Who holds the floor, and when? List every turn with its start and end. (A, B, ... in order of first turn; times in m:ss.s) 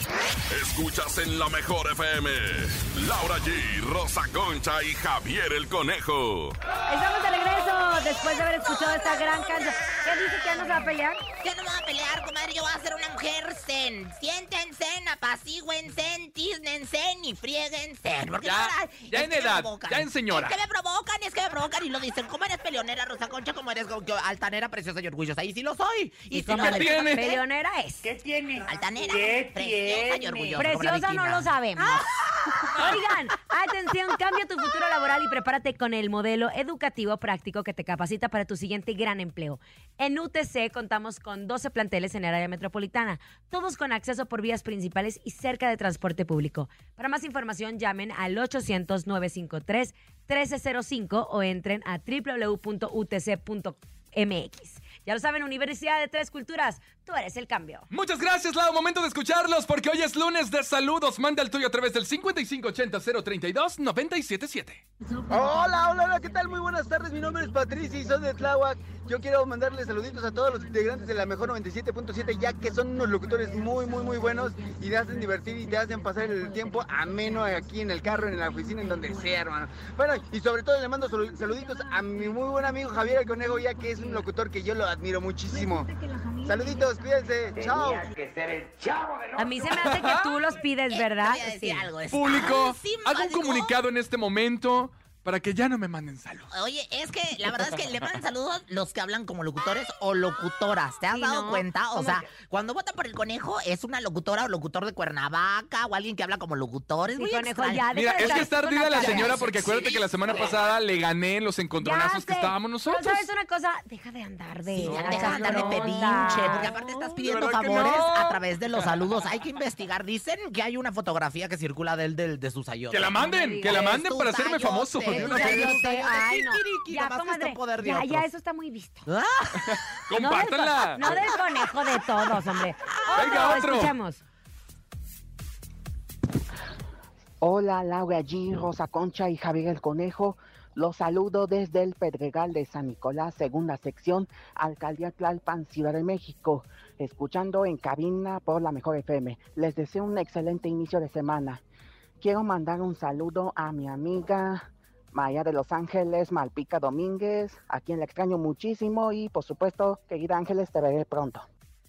0:00.5-0:06.6 A
0:06.9-0:11.2 B
0:08.6-0:27.4 C
0:18.4-0:20.6 D
0:26.3-0:28.1 B
0:26.5-0:27.3 D
0:28.0-0:30.6 E
0:28.6-0:32.8 C
0:30.6-0:32.0 B
0:32.7-0:57.9 B
0:57.9-1:04.8 D
1:05.3-1:25.9 F
1:26.4-1:28.0 F
1:27.7-1:29.3 E
1:29.4-1:31.9 B
1:29.8-1:30.3 D
1:30.9-1:33.8 C
1:32.1-1:36.5 D
1:36.5-1:50.6 C
1:41.1-1:42.2 B
1:47.2-1:49.4 B
1:47.9-1:53.3 D
1:51.8-1:56.7 B
1:54.8-1:58.9 D
1:54.8-2:08.3 C
2:02.9-2:05.8 D
2:03.2-2:03.9 B
2:05.1-2:09.1 B
2:09.1-2:10.0 C
2:09.7-2:11.0 D
2:10.2-2:14.2 B
2:11.0-2:13.6 C
2:13.2-2:13.9 D
2:17.4-2:31.6 G
2:32.2-2:41.5 G